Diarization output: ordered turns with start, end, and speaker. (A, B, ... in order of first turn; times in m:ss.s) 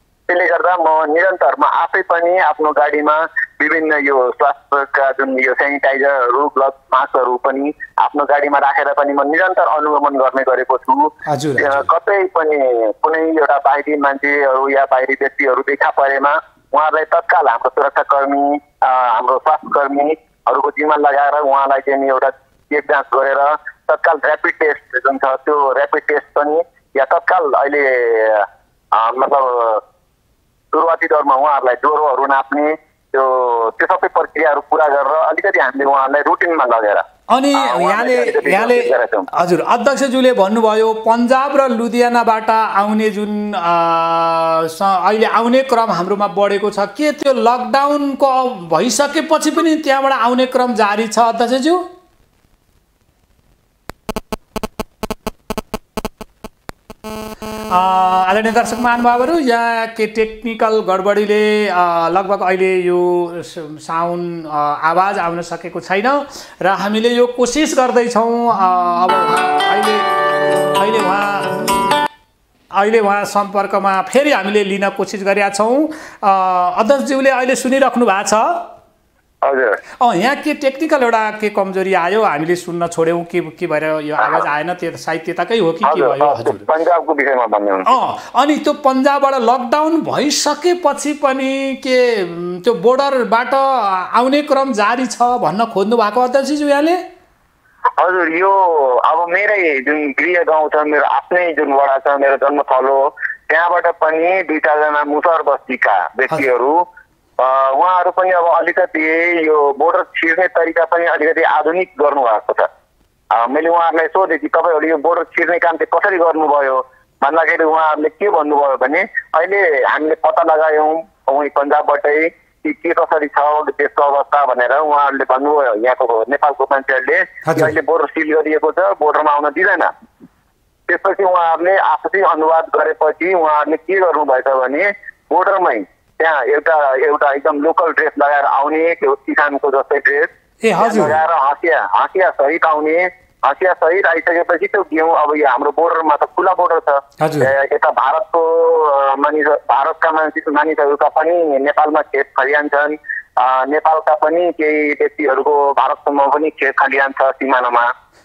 0:00.3-0:29.8 A
0:11.3-0:11.9 B
0:30.7-0:39.3 A
0:37.3-0:51.9 B
0:57.7-1:11.8 B
1:12.7-1:18.7 B
1:19.4-1:19.8 A
1:20.0-1:26.6 B
1:25.8-1:28.0 A
1:27.9-1:37.0 B
1:38.0-1:46.8 A
1:47.4-1:52.7 A
1:53.3-2:09.9 A
2:07.5-2:07.7 B
2:10.9-2:37.9 A
2:20.6-2:21.2 B
2:27.2-2:27.5 B